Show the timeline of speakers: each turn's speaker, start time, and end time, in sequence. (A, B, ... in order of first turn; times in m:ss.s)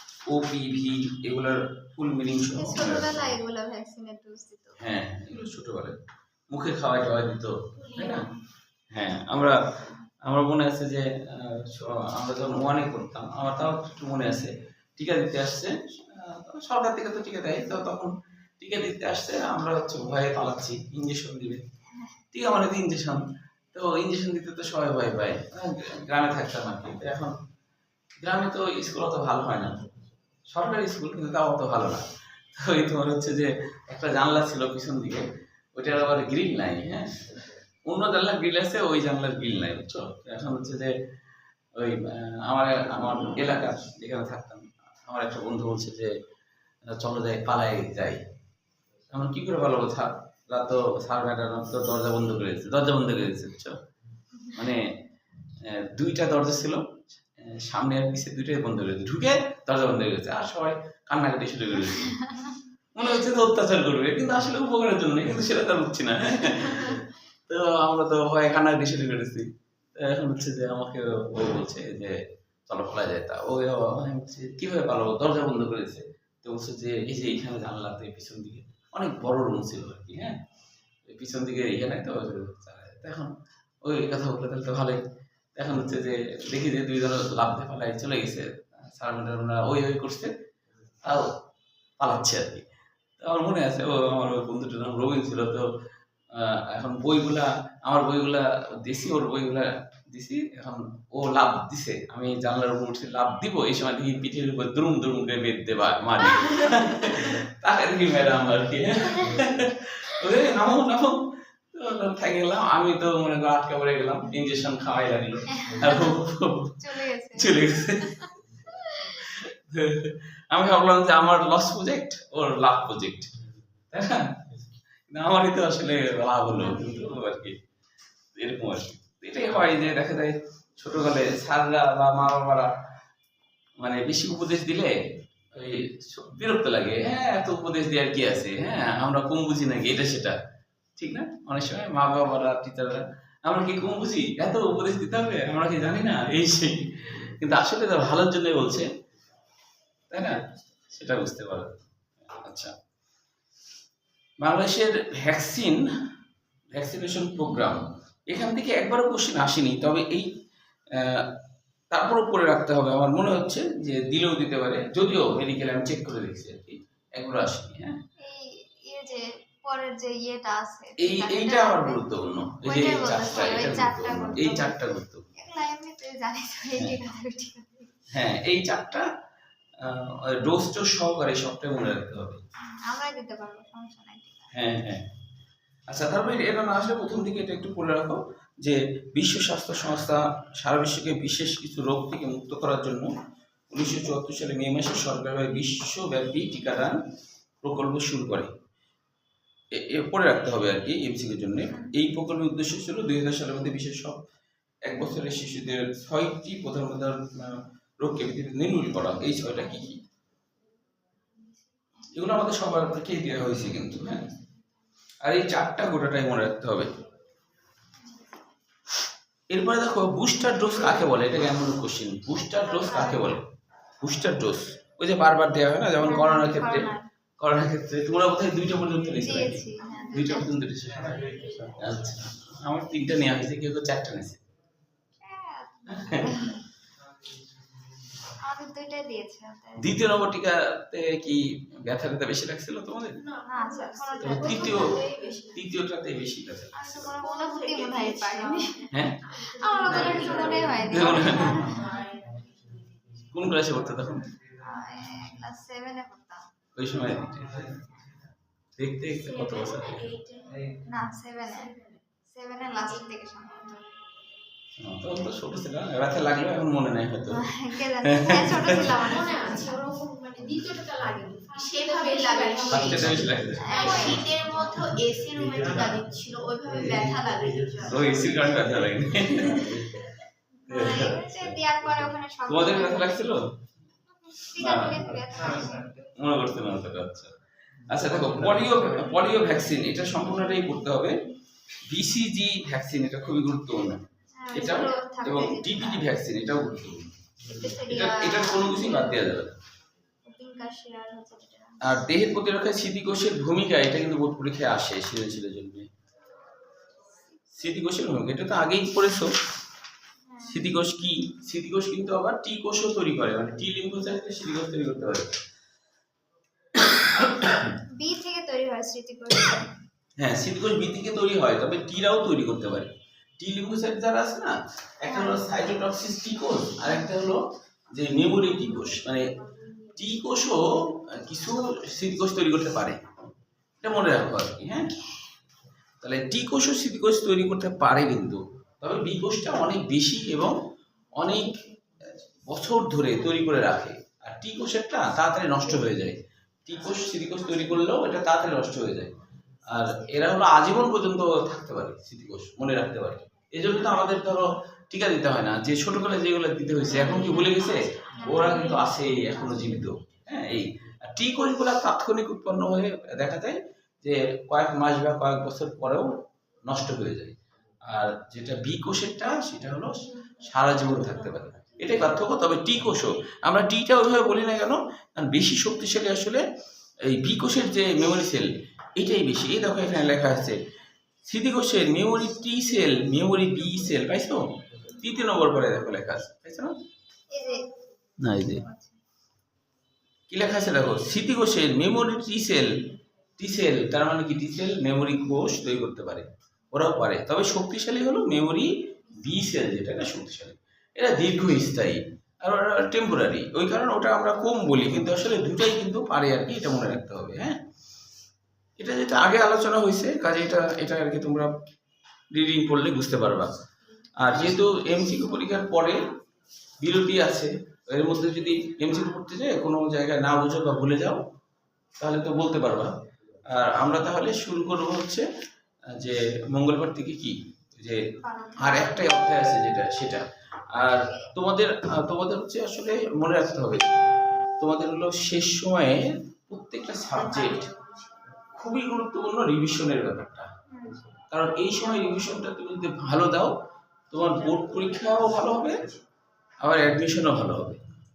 0:00.3-0:03.4 A
0:02.6-0:04.8 B
0:04.8-0:06.0 A
0:06.5-0:08.3 A
0:07.9-0:08.3 B
0:08.9-0:21.6 A
0:22.3-0:27.4 A
0:28.2-0:29.9 A
0:30.5-0:40.9 A
0:41.8-0:46.1 A
0:46.9-0:48.2 A
0:49.1-0:53.8 A
0:54.5-0:55.0 A
0:55.6-0:56.8 A
0:57.4-1:02.3 A
1:02.2-1:02.5 B
1:02.9-1:20.4 A
1:21.1-1:23.3 A
1:23.8-1:25.0 A
1:25.6-1:30.3 A
1:31.0-1:31.4 A
1:32.0-1:32.7 A
1:33.2-1:35.7 A
1:36.3-1:58.3 A
1:55.5-1:56.2 B
1:56.8-1:59.2 B
1:58.9-2:03.4 A
2:03.9-2:04.5 A
2:05.1-2:07.6 A
2:08.4-2:12.7 A
2:13.8-2:15.0 A
2:15.5-2:20.4 A
2:21.0-2:28.9 A
2:30.1-2:31.7 A
2:32.3-2:32.7 A
2:34.4-2:35.8 A
2:36.7-2:40.3 A
2:40.9-2:41.3 A
2:41.9-2:48.0 A
2:48.2-2:52.0 B
2:51.0-2:55.2 A
2:52.6-2:54.8 B
2:55.3-2:57.9 B
2:58.1-2:59.1 A
2:59.8-3:02.4 A
3:02.6-3:04.5 B
3:04.5-3:05.1 A
3:05.9-3:13.1 A
3:13.7-3:17.0 A
3:17.6-3:18.5 A
3:19.7-3:24.2 A
3:24.8-3:30.0 A
3:32.1-3:34.3 A
3:35.2-3:36.9 A
3:39.5-3:43.5 A
3:42.4-3:43.4 B
3:44.0-3:54.4 A
3:46.0-3:47.1 B
3:49.2-3:50.6 B
3:51.2-3:51.9 C
3:55.2-3:56.6 B
3:55.9-3:56.6 A
3:58.3-4:00.1 B
3:59.8-4:03.2 A
4:03.2-4:05.7 C
4:03.4-4:05.0 B
4:04.2-4:05.0 A
4:05.5-4:07.2 A
4:06.7-4:12.1 B
4:07.2-4:13.3 C
4:08.9-4:09.2 A
4:10.8-4:11.7 A
4:13.2-4:14.3 A
4:14.6-4:16.4 B
4:16.7-4:17.9 A
4:18.8-4:20.1 A
4:19.2-4:20.8 C
4:20.8-4:21.7 B
4:21.4-4:22.0 C
4:22.3-4:23.8 B
4:24.8-4:29.1 A
4:27.3-4:29.8 B
4:28.6-4:38.2 C
4:31.7-4:32.8 B
4:32.7-4:34.3 A
4:33.6-4:34.7 B
4:37.8-4:40.0 A
4:39.4-4:39.7 B
4:40.6-4:43.3 B
4:40.7-4:41.6 A
4:42.4-4:43.5 A
4:44.2-4:46.1 B
4:44.5-4:47.3 A
4:47.8-4:51.2 A
4:51.9-4:59.6 A
4:54.3-4:56.1 B
4:57.5-4:59.2 B
5:00.2-5:01.8 B
5:01.8-5:05.9 A
5:07.5-5:09.3 A
5:10.2-5:10.8 B
5:10.4-5:15.3 A
5:16.9-5:17.6 A
5:17.9-5:19.7 B
5:20.2-5:29.3 A
5:25.0-5:25.5 B
5:29.9-5:33.0 A
5:33.8-5:34.9 A
5:36.0-5:40.6 A
5:41.2-6:16.4 A
5:57.0-5:58.8 B
6:17.0-6:20.6 A
6:21.2-6:26.8 A
6:27.3-6:27.7 B
6:28.2-6:28.6 A
6:28.3-6:29.0 B
6:30.3-6:32.7 A
6:33.4-6:47.6 A
6:48.8-6:51.5 A
6:52.3-6:53.5 A
6:54.2-6:56.0 A
6:56.8-7:01.2 A
7:02.0-7:05.3 A
7:05.9-7:13.9 A
7:08.2-7:09.2 B
7:14.6-7:17.7 A
7:17.2-7:18.1 B
7:18.5-7:20.5 A
7:20.7-7:21.1 B
7:21.3-7:23.5 A
7:24.1-7:25.9 A
7:26.6-7:27.8 A